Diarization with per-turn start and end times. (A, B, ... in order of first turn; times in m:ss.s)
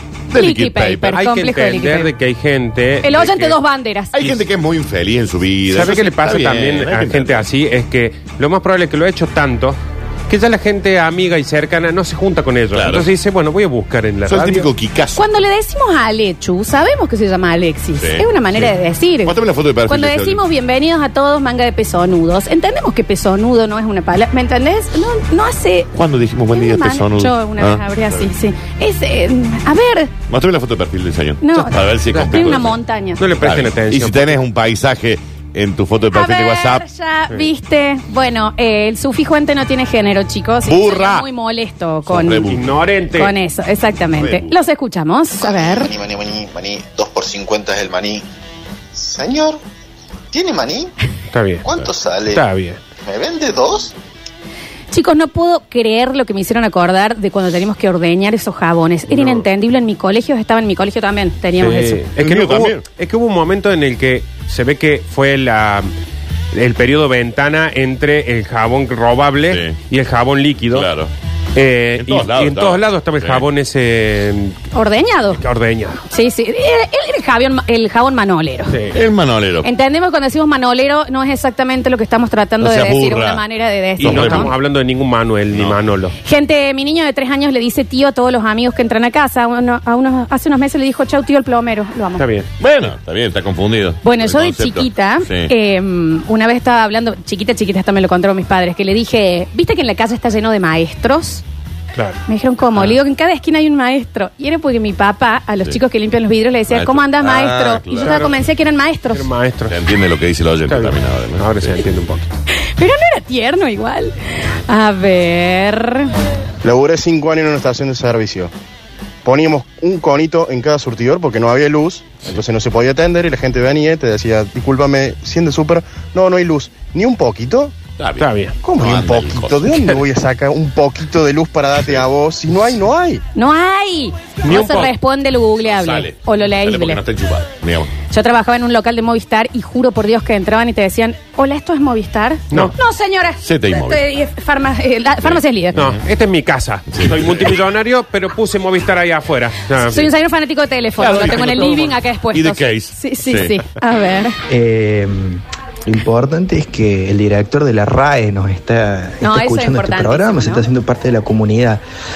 0:00.3-0:01.2 A
0:00.3-0:02.1 B
0:01.1-0:03.6 C
0:03.0-0:04.2 B
0:04.1-0:07.4 A
0:05.7-0:14.7 C
0:12.7-0:13.1 A
0:14.3-0:15.2 A
0:15.2-0:19.3 B
0:18.0-0:20.4 A
0:19.8-0:25.9 B
0:25.9-0:28.3 A
0:26.5-0:30.1 B
0:30.3-0:32.8 A
0:31.4-0:33.2 B
0:32.1-0:32.5 C
0:33.2-0:34.4 C
0:33.4-0:36.8 A
0:36.1-0:42.5 B
0:40.6-0:41.2 A
0:42.1-0:42.7 A
0:42.4-0:43.3 C
0:43.2-0:45.9 B
0:44.2-0:44.6 A
0:45.4-0:48.2 D
0:48.9-0:49.6 D
0:50.3-0:50.9 D
0:51.3-0:51.6 C
0:51.6-0:52.4 D
0:52.3-0:52.8 C
0:53.0-0:53.9 D
0:54.9-1:02.0 B
0:59.1-0:59.4 C
1:01.6-1:05.9 C
1:02.2-1:02.8 A
1:06.5-1:10.9 C
1:09.5-1:09.8 A
1:10.7-1:11.1 A
1:11.5-1:14.6 C
1:12.0-1:13.5 A
1:14.7-1:15.4 B
1:15.3-1:16.0 C
1:16.1-1:18.8 B
1:18.7-1:19.0 C
1:18.9-1:19.7 A
1:19.6-1:24.5 B
1:22.6-1:23.4 A
1:24.0-1:24.5 A
1:24.0-1:26.2 C
1:25.5-1:25.8 A
1:26.2-1:32.2 B
1:32.2-1:32.5 C
1:32.6-1:35.5 A
1:34.0-1:41.4 B
1:41.9-1:42.2 C
1:42.3-1:49.2 B
1:46.7-1:48.3 A
1:48.0-1:48.3 C
1:49.1-1:49.8 C
1:49.7-1:51.8 A
1:50.7-1:52.2 C
1:52.6-1:56.1 B
1:56.6-1:58.5 E
1:59.2-2:07.8 E
2:08.0-2:10.0 A
2:08.2-2:08.6 C
2:08.6-2:13.2 E
2:13.3-2:17.0 B
2:14.4-2:14.9 C
2:15.6-2:17.9 A
2:18.1-2:25.8 B
2:23.4-2:24.0 A
2:25.2-2:26.0 A
2:25.7-2:30.0 C
2:26.9-2:27.6 A
2:29.8-2:34.4 B
2:31.0-2:33.6 A
2:31.2-2:31.7 C
2:34.5-2:41.8 F
2:39.2-2:40.6 B